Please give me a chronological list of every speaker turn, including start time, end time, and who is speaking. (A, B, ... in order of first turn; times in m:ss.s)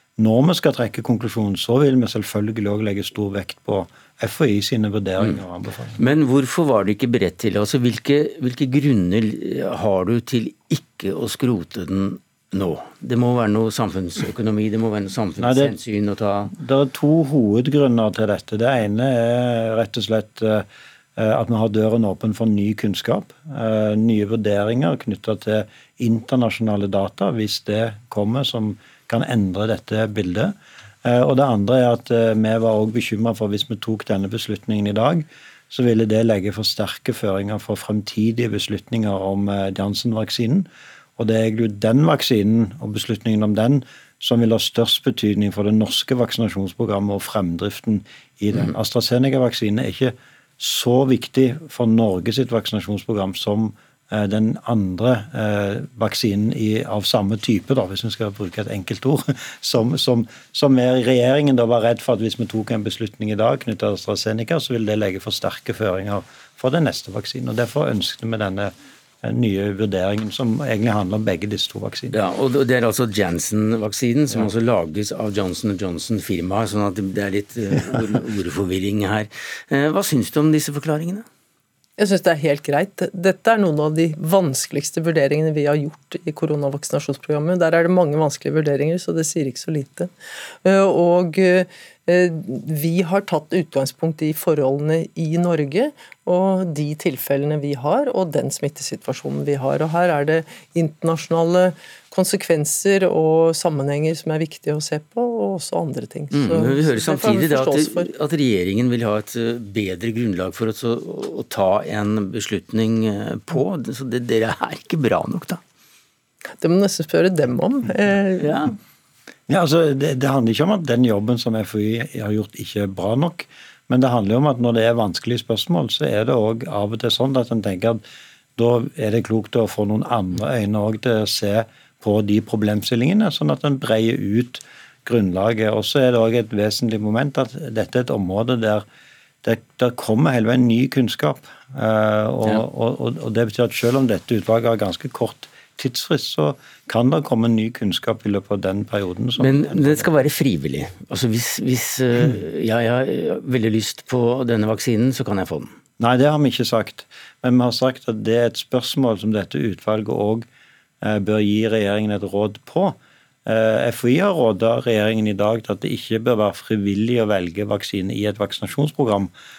0:00.2-0:06.0 A
0:06.0-0:16.5 B
0:15.4-0:15.7 A
0:16.5-1:12.1 A
1:12.1-1:21.2 B
1:22.0-1:30.1 C
1:30.6-1:48.1 C
1:46.3-1:55.6 B
1:56.6-1:58.7 C
1:58.4-1:58.7 B
1:59.5-2:08.0 A
2:08.6-2:18.8 A
2:19.4-2:30.1 A
2:29.4-2:35.7 B
2:36.0-2:40.4 A
2:41.0-2:49.3 A